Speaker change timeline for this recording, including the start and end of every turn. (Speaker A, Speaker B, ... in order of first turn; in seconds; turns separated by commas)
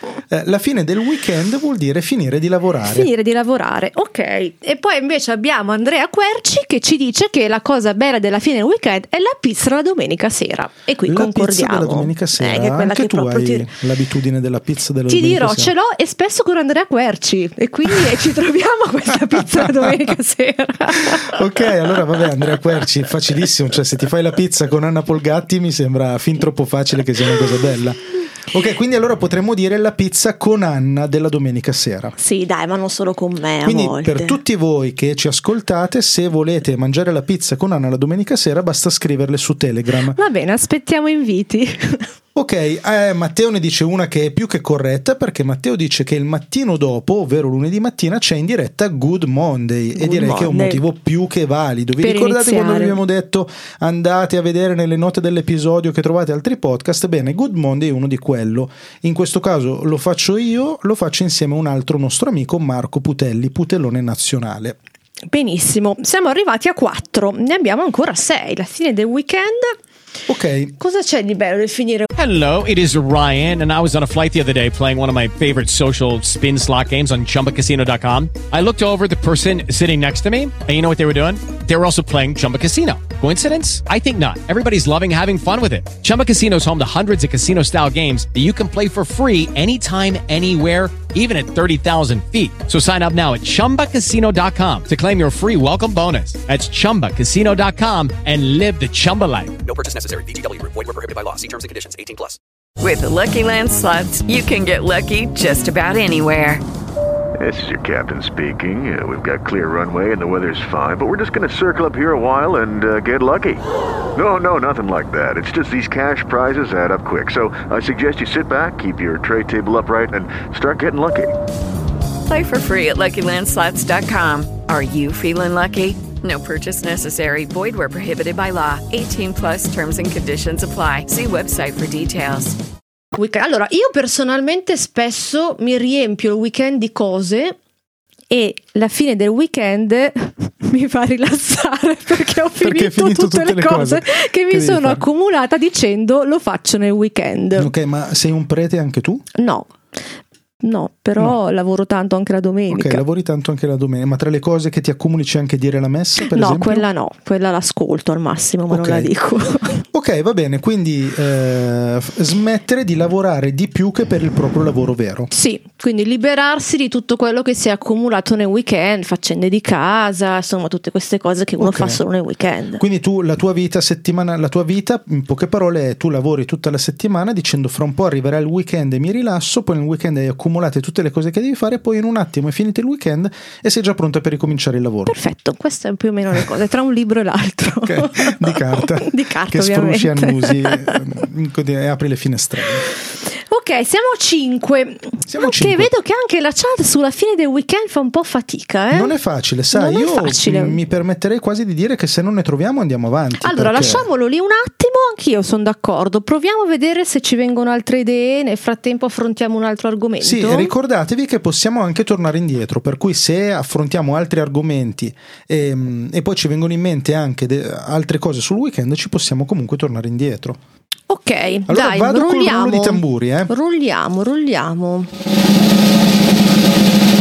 Speaker A: 0.3-3.1, Speaker B: 2.8-13.7, Speaker A: 11.1-15.7, Speaker B: 15.1-21.4, Speaker A: 19.3-20.0, Speaker A: 21.1-32.1, Speaker B: 32.2-34.4, Speaker A: 33.6-40.2, Speaker B: 40.1-42.1, Speaker A: 42.3-64.8, Speaker B: 49.9-50.8, Speaker B: 52.0-53.0, Speaker B: 65.3-69.8, Speaker A: 70.3-70.7, Speaker B: 70.8-72.1, Speaker C: 72.2-99.5, Speaker D: 99.6-102.4, Speaker E: 102.8-106.6, Speaker F: 107.4-113.6, Speaker F: 114.1-121.3, Speaker E: 122.2-132.6, Speaker B: 133.1-137.5, Speaker B: 138.3-147.7, Speaker A: 142.6-145.0, Speaker A: 147.6-149.2, Speaker B: 149.3-149.7, Speaker B: 150.6-153.0, Speaker A: 152.7-156.9, Speaker B: 156.3-159.8, Speaker A: 158.7-159.1, Speaker A: 159.9-165.3, Speaker B: 165.3-172.8, Speaker A: 171.6-172.0, Speaker A: 172.8-185.1, Speaker B: 185.0-191.0, Speaker A: 187.8-192.9, Speaker B: 193.5-199.1, Speaker A: 195.3-195.9, Speaker A: 198.9-204.0, Speaker B: 199.7-200.8, Speaker B: 203.4-210.7, Speaker A: 210.2-220.6, Speaker B: 221.1-225.1, Speaker A: 221.7-223.5